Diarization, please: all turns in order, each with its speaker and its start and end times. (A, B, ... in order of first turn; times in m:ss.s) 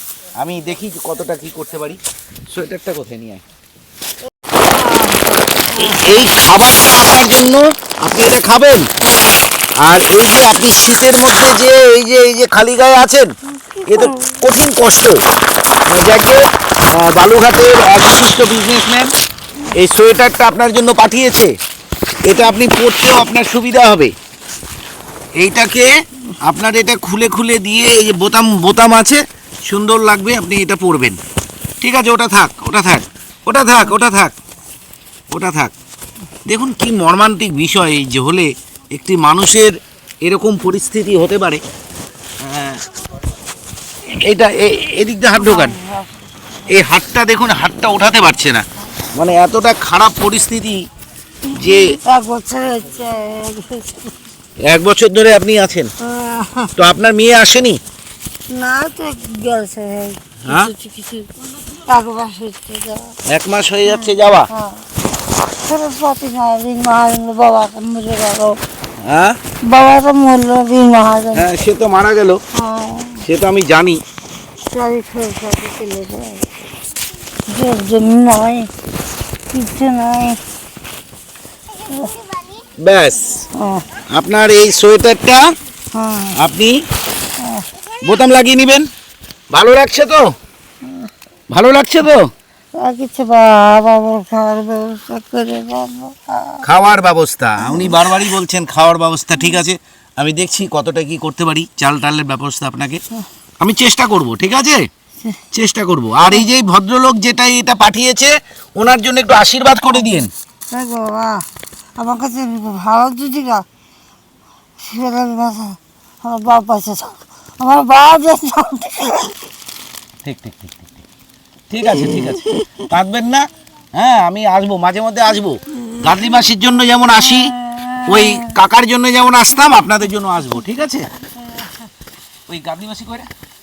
0:00.4-0:02.0 A
0:02.5-0:03.4 A
0:04.6-0:06.3 B
0:05.8-0:08.9 A
0:09.0-0:09.4 B
0:09.8-0:13.3 A
0:13.5-0:14.4 B
0:13.9-0:15.2 A
0:15.9-0:19.1 A
0:19.7-0:21.5 A
0:22.2-0:24.1 A
0:25.4-0:25.9 A
0:26.4-0:31.2 A
0:31.8-0:34.3 A
0:35.3-0:35.7 A
0:36.4-0:41.6 A
0:42.4-0:42.8 A
0:44.2-0:45.8 A
0:45.4-0:46.2 B
0:46.7-0:50.8 A
0:51.4-0:54.1 B
0:51.5-0:52.0 A
0:54.6-0:55.9 A
0:56.0-0:56.7 B
0:56.8-0:57.8 A
0:58.5-1:03.1 B
1:00.4-1:00.7 A
1:03.3-1:04.5 A
1:03.8-1:04.8 B
1:05.6-1:08.6 B
1:09.0-1:09.4 A
1:09.6-1:11.5 B
1:11.3-1:12.4 A
1:12.5-1:13.2 B
1:13.2-1:14.0 A
1:14.6-1:16.5 B
1:17.5-1:18.7 B
1:19.5-1:20.4 B
1:21.8-1:22.3 B
1:22.8-1:23.4 A
1:23.5-1:23.9 B
1:24.1-1:25.4 A
1:25.9-1:26.4 B
1:26.3-1:26.8 A
1:27.4-1:27.7 B
1:28.0-1:28.9 A
1:29.5-1:30.3 A
1:30.8-1:31.1 B
1:31.5-1:32.3 A
1:32.8-1:36.6 B
1:36.6-1:43.0 A
1:37.6-1:38.3 B
1:43.6-1:44.9 A
1:45.5-1:50.3 A
1:50.7-1:51.4 B
1:52.0-1:53.6 B
1:54.8-1:59.4 B
2:00.2-2:01.0 A
2:01.7-2:07.5 A
2:07.2-2:08.5 B
2:08.1-2:11.1 A
2:11.4-2:11.7 B
2:12.5-2:13.3 A